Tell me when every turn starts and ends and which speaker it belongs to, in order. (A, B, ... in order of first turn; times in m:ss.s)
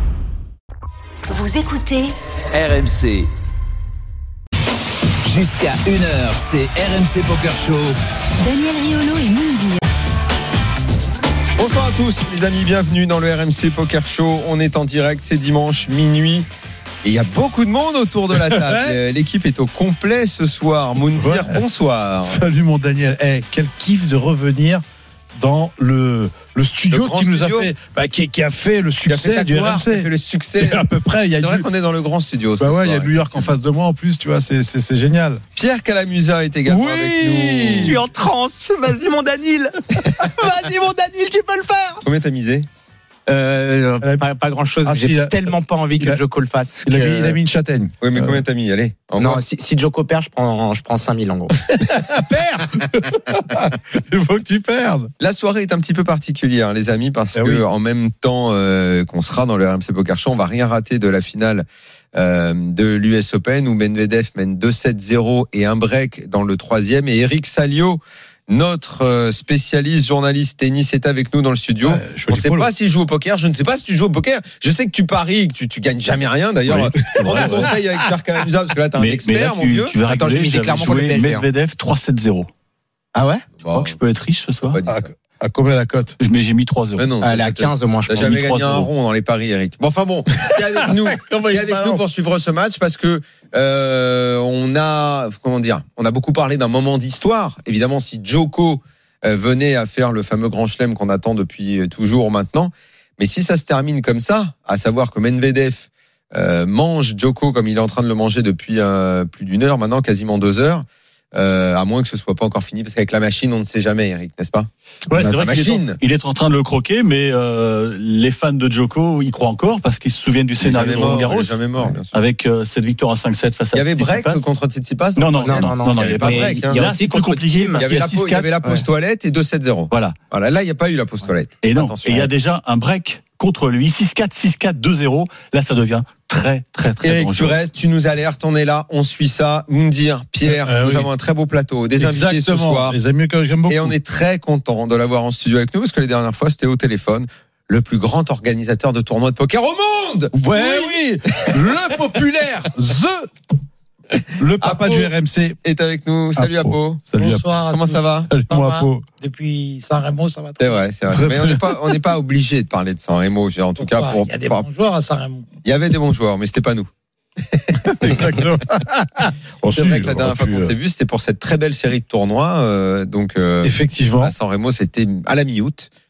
0:01.3-0:02.1 A
0:02.5-0:03.3 B
0:05.2-0:08.0 B
0:08.4-0:09.8 A
0:11.6-0:16.5 C
0:17.0-0:22.4 C
0:18.4-0:19.0 D
0:21.2-0:21.6 D
0:22.2-0:31.7 D
0:26.9-0:27.7 C
0:29.0-0:30.8 C
0:31.4-0:33.5 C
0:32.6-0:35.4 D
0:35.6-0:38.0 C
0:36.6-0:38.0 D
0:37.8-0:42.0 E
0:42.0-0:42.7 C
0:43.3-0:47.4 E
0:44.0-0:44.3 D
0:44.8-0:46.2 D
0:46.8-0:48.4 D
0:48.0-0:49.4 C
0:49.2-0:51.6 E
0:51.8-0:55.1 D
0:55.2-1:20.0 C
0:57.3-0:57.6 D
1:11.8-1:12.7 D
1:16.7-1:17.8 F
1:17.2-1:17.6 D
1:19.0-1:22.5 F
1:20.1-1:21.5 E
1:23.1-1:23.5 E
1:23.6-1:24.0 C
1:23.7-1:24.8 F
1:24.7-1:25.1 C
1:24.8-1:26.2 D
1:26.2-1:27.1 F
1:27.0-1:54.7 C
1:27.2-1:28.9 E
1:28.1-1:28.8 F
1:31.3-1:31.9 D
1:55.1-2:04.4 F
1:55.2-1:56.0 C
2:00.6-2:02.1 C
2:03.7-2:06.8 C
2:05.2-2:08.5 F
2:05.4-2:07.9 E
2:07.8-2:12.3 C
2:11.6-2:17.6 F
2:17.0-2:23.0 C
2:20.4-2:21.1 D
2:22.0-2:24.0 D
2:23.7-2:31.5 C
2:30.3-2:33.3 D
2:34.4-2:35.6 D
2:34.6-2:35.1 C
2:35.6-2:37.0 C
2:36.4-2:37.5 D
2:37.2-2:40.8 G
2:37.7-2:38.3 C
2:38.3-2:39.1 D
2:40.6-2:44.6 C
2:41.1-2:41.8 D
2:43.8-2:45.4 G
2:45.6-2:46.9 C
2:47.5-2:48.4 C
2:47.8-2:50.7 D
2:49.8-2:55.9 C
2:53.6-2:54.3 D